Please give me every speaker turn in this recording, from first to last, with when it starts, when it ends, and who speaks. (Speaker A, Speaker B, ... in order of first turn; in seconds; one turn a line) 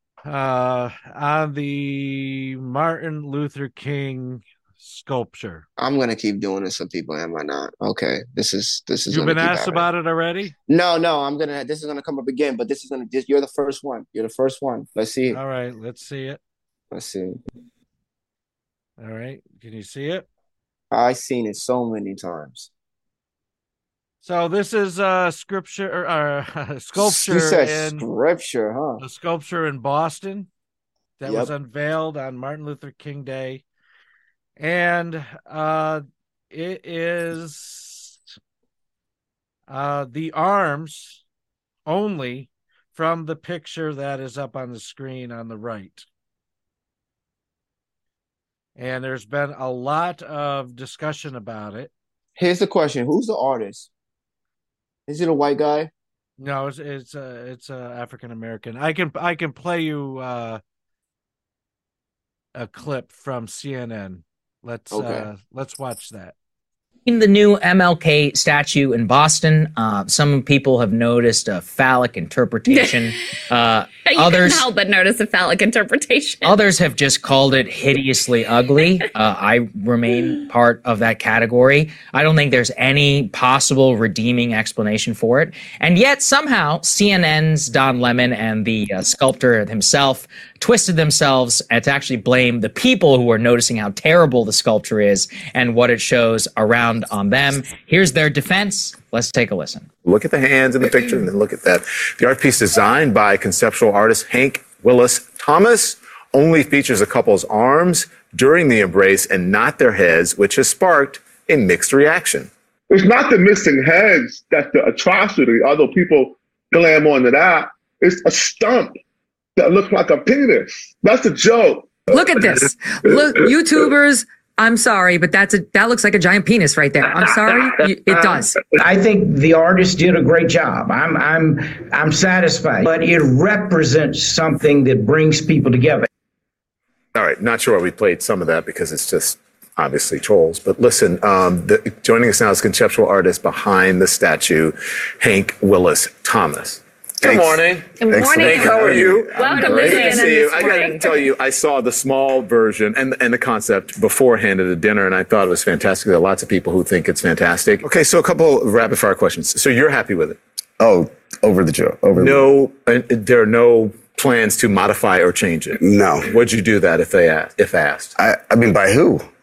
Speaker A: 0.3-5.7
Speaker B: 5.8-9.9
Speaker A: 9.1-10.5
Speaker B: 10.7-15.4
Speaker A: 15.3-16.4
Speaker B: 16.9-17.4
Speaker A: 19.0-20.3
Speaker B: 20.9-22.7
Speaker A: 24.2-28.1
Speaker B: 27.0-29.0
Speaker A: 29.0-30.5
Speaker A: 31.2-33.6
Speaker B: 31.2-31.5
Speaker A: 34.6-38.2
Speaker A: 39.7-41.2
Speaker A: 41.9-46.1
Speaker A: 48.8-51.9
Speaker B: 52.4-53.9
Speaker B: 55.1-55.9
Speaker A: 56.4-60.6
Speaker A: 62.5-66.3
Speaker B: 64.9-65.3
Speaker C: 67.1-74.7
Speaker D: 72.7-73.2
Speaker D: 74.0-76.6
Speaker C: 76.4-99.9
Speaker E: 100.0-112.5
Speaker F: 112.9-119.0
Speaker F: 119.6-122.1
Speaker G: 122.1-128.6
Speaker H: 128.7-136.1
Speaker E: 137.2-160.4
Speaker I: 147.2-149.1
Speaker D: 148.0-151.2
Speaker I: 160.8-162.5
Speaker E: 162.2-168.1
Speaker I: 165.8-166.2
Speaker I: 168.2-169.2